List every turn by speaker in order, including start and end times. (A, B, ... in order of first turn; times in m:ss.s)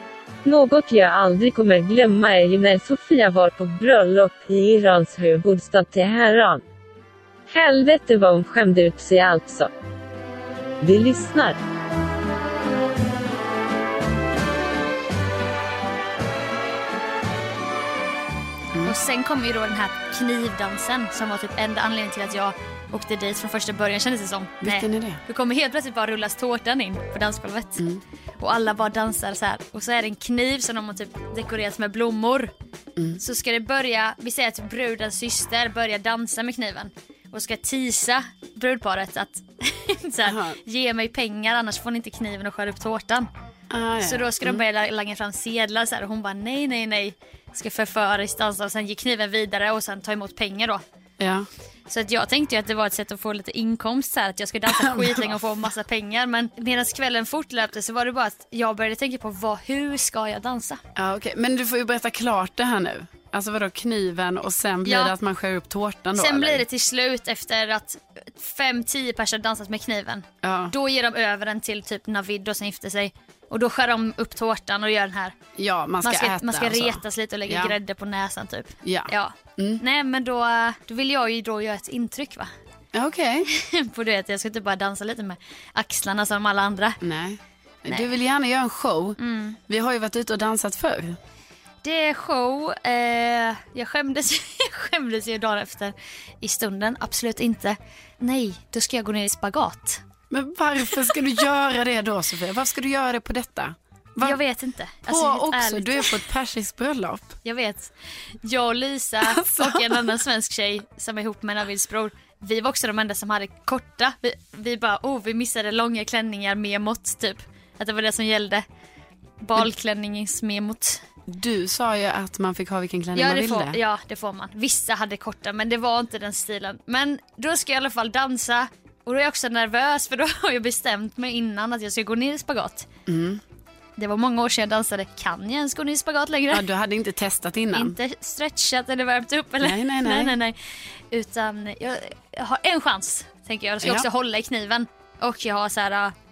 0:00.4-0:06.6 A
0:07.5-0:09.7 A
0:10.8-0:11.6 A
0:18.8-0:27.8 B
0:24.6-0:25.2 C
0:28.4-0:32.5 B
0:33.2-0:43.3 B
0:40.2-0:40.6 C
0:43.7-0:44.6 C
0:44.0-0:50.8 B
0:51.2-0:51.5 C
0:51.9-1:00.8 B
0:54.7-0:55.6 C
1:01.0-1:06.6 C
1:04.8-1:05.1 B
1:06.1-1:15.4 B
1:10.4-1:10.7 C
1:15.6-1:17.8 C
1:16.0-1:22.5 B
1:18.8-1:19.8 C
1:22.9-1:23.5 C
1:23.5-1:27.0 B
1:27.0-1:31.2 C
1:29.2-1:29.6 B
1:31.8-1:40.0 B
1:40.3-1:44.4 C
1:44.2-1:46.2 B
1:45.1-1:47.4 C
1:47.4-1:47.9 B
1:48.4-1:58.6 B
1:49.2-1:50.1 C
1:59.4-2:01.0 B
2:01.3-2:03.8 C
2:03.1-2:12.9 B
2:13.0-2:13.4 C
2:14.0-2:16.6 B
2:16.5-2:18.0 C
2:17.7-2:20.6 B
2:19.6-2:20.4 C
2:21.1-2:26.1 B
2:23.8-2:24.1 C